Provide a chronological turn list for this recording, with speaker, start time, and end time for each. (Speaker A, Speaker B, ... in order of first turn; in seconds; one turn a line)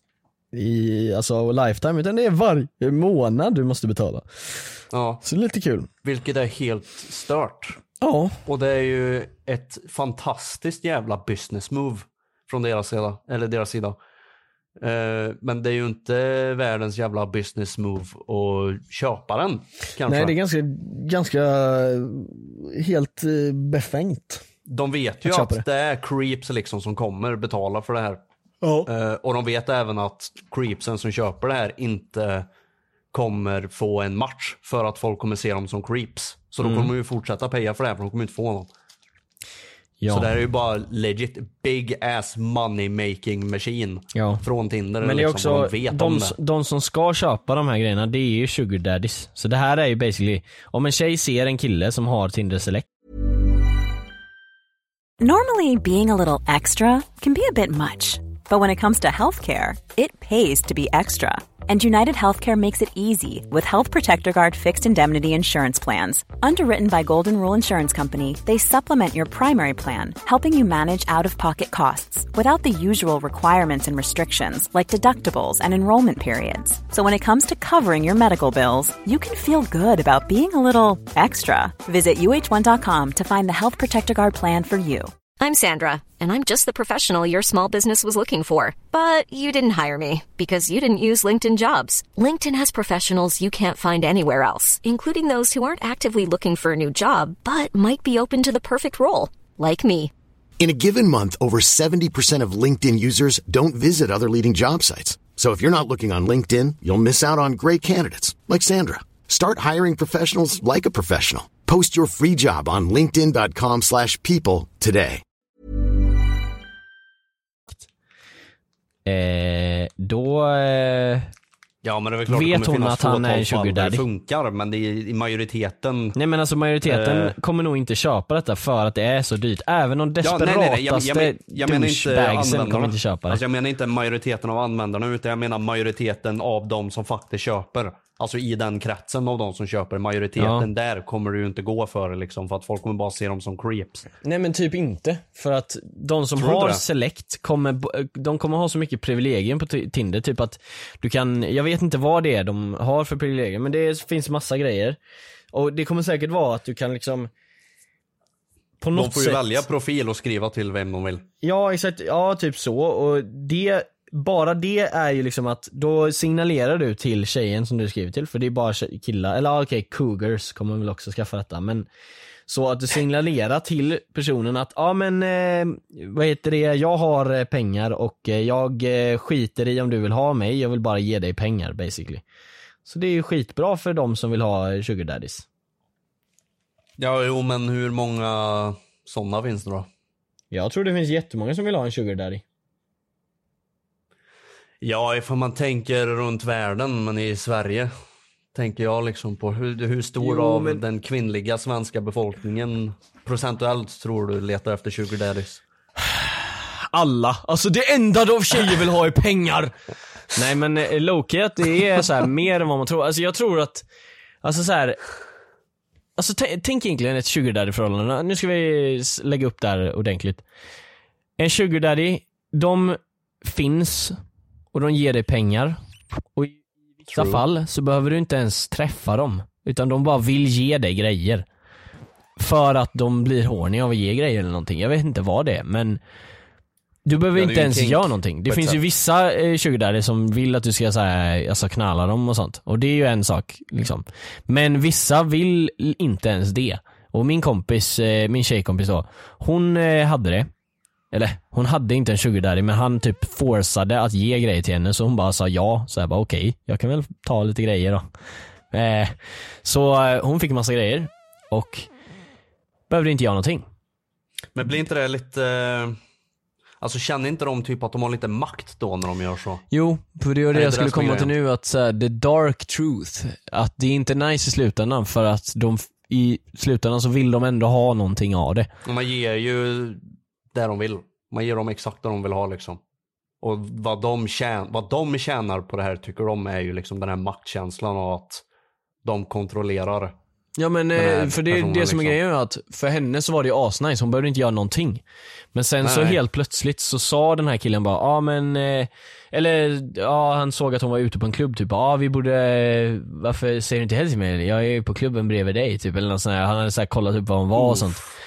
Speaker A: 0.5-5.9
Speaker B: 4.9-5.2
Speaker B: 6.0-7.8
Speaker A: 8.0-8.4
Speaker B: 8.4-13.9
Speaker B: 14.8-20.3
Speaker A: 20.1-24.4
Speaker B: 24.7-28.2
Speaker A: 25.2-25.6
Speaker A: 28.6-28.9
Speaker B: 28.9-32.5
Speaker B: 33.1-38.7
Speaker A: 36.6-36.9
Speaker A: 40.0-40.3
Speaker B: 40.1-46.4
Speaker A: 44.1-44.4
Speaker A: 45.0-52.9
Speaker C: 55.2-85.1
Speaker D: 85.4-100.1
Speaker E: 100.6-115.2
Speaker A: 119.1-121.3
Speaker B: 121.8-126.2
Speaker A: 122.3-124.0
Speaker A: 126.1-133.4
Speaker B: 126.8-127.3
Speaker B: 130.2-144.1
Speaker A: 140.4-140.7
Speaker A: 144.2-155.0
Speaker B: 146.4-146.8
Speaker A: 155.5-157.3
Speaker A: 158.8-159.6
Speaker B: 158.9-161.2
Speaker A: 161.4-171.9
Speaker A: 172.5-182.2
Speaker A: 182.8-185.4
Speaker B: 187.0-189.9
Speaker A: 190.5-192.4
Speaker B: 194.8-197.9
Speaker B: 198.5-205.6
Speaker A: 200.2-200.8
Speaker A: 206.0-209.7
Speaker A: 210.3-213.9
Speaker A: 214.4-215.0
Speaker A: 216.2-220.4
Speaker A: 221.4-224.2
Speaker A: 224.7-231.4
Speaker B: 227.1-227.4
Speaker A: 232.4-236.0
Speaker A: 237.1-250.5
Speaker B: 237.3-238.8
Speaker A: 251.1-258.1
Speaker A: 258.7-261.9
Speaker A: 262.9-263.7
Speaker B: 264.6-266.0
Speaker B: 266.8-269.6
Speaker A: 269.7-278.7
Speaker B: 270.5-271.3
Speaker B: 278.9-280.0
Speaker B: 280.5-282.8
Speaker B: 283.4-288.4
Speaker B: 289.0-290.1
Speaker A: 290.6-295.0
Speaker B: 290.9-292.2
Speaker A: 295.5-308.0
Speaker B: 295.8-296.2
Speaker B: 307.6-308.1